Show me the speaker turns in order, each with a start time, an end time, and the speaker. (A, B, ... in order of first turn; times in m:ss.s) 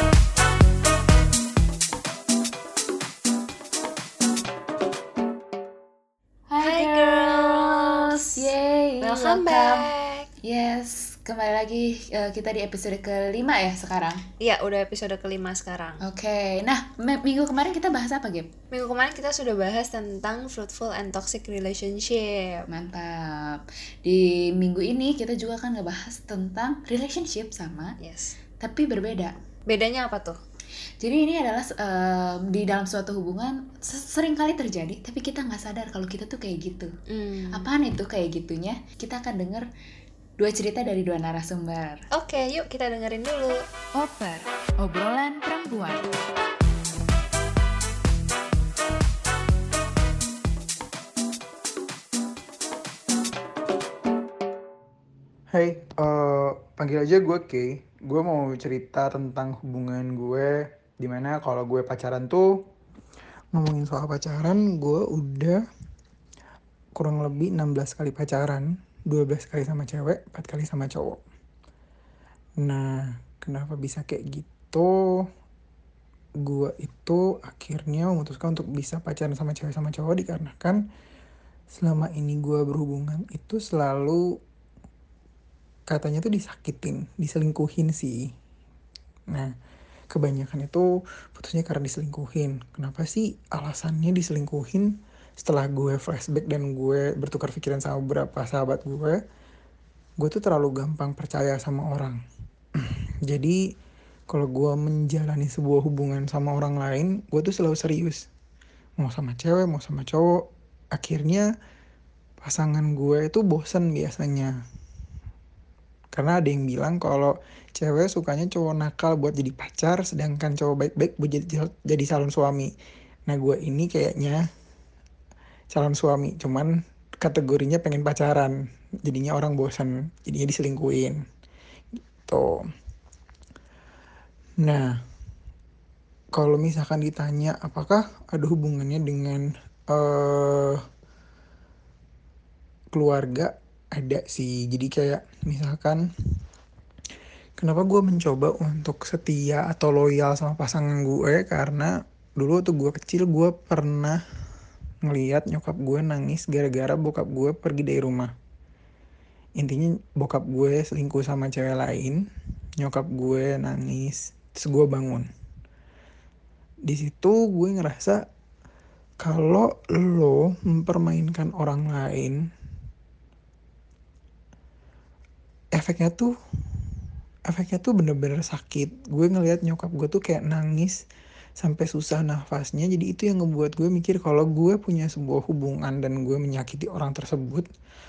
0:06.5-0:09.8 A
0:06.6-0:08.5 B
0:09.0-0:10.3 B
0:10.4-0:14.2 A
0:14.4-0:16.0 B
0:16.0-0:18.5 A
0:18.7-0:22.7 B
0:22.7-0:28.0 A
0:28.0-0:28.4 B
0:28.6-0:29.3 A
0:29.7-0:30.4 B
0:31.0-0:36.9 A
0:37.1-0:37.7 B
0:37.5-0:39.7 A
0:40.4-0:42.0 A
0:42.1-0:43.6 B
0:44.0-0:46.1 A
0:55.5-1:02.5 C
1:03.5-1:05.6 C
1:07.0-1:11.2 C
1:12.6-1:15.3 C
1:16.4-1:20.8 C
1:21.7-1:24.2 C
1:25.9-1:28.3 C
1:30.1-1:39.2 C
1:40.2-1:42.2 C
1:42.8-1:43.6 C
1:44.3-1:48.2 C
1:49.0-1:50.4 C
1:51.0-1:51.5 C
1:52.4-1:54.6 C
1:56.1-2:02.7 C
2:03.3-2:04.4 C
2:05.7-2:06.7 C
2:07.2-2:08.5 C
2:09.0-2:11.2 C
2:12.3-2:12.6 C
2:14.6-2:14.9 C
2:16.4-2:20.8 C
2:22.9-2:26.0 C
2:27.6-2:34.2 C
2:35.0-2:38.3 C
2:39.6-2:42.2 C
2:42.8-2:45.3 C
2:46.8-2:48.2 C
2:49.2-2:52.4 C
2:55.8-2:56.3 C
2:57.5-3:01.0 C
3:01.6-3:07.7 C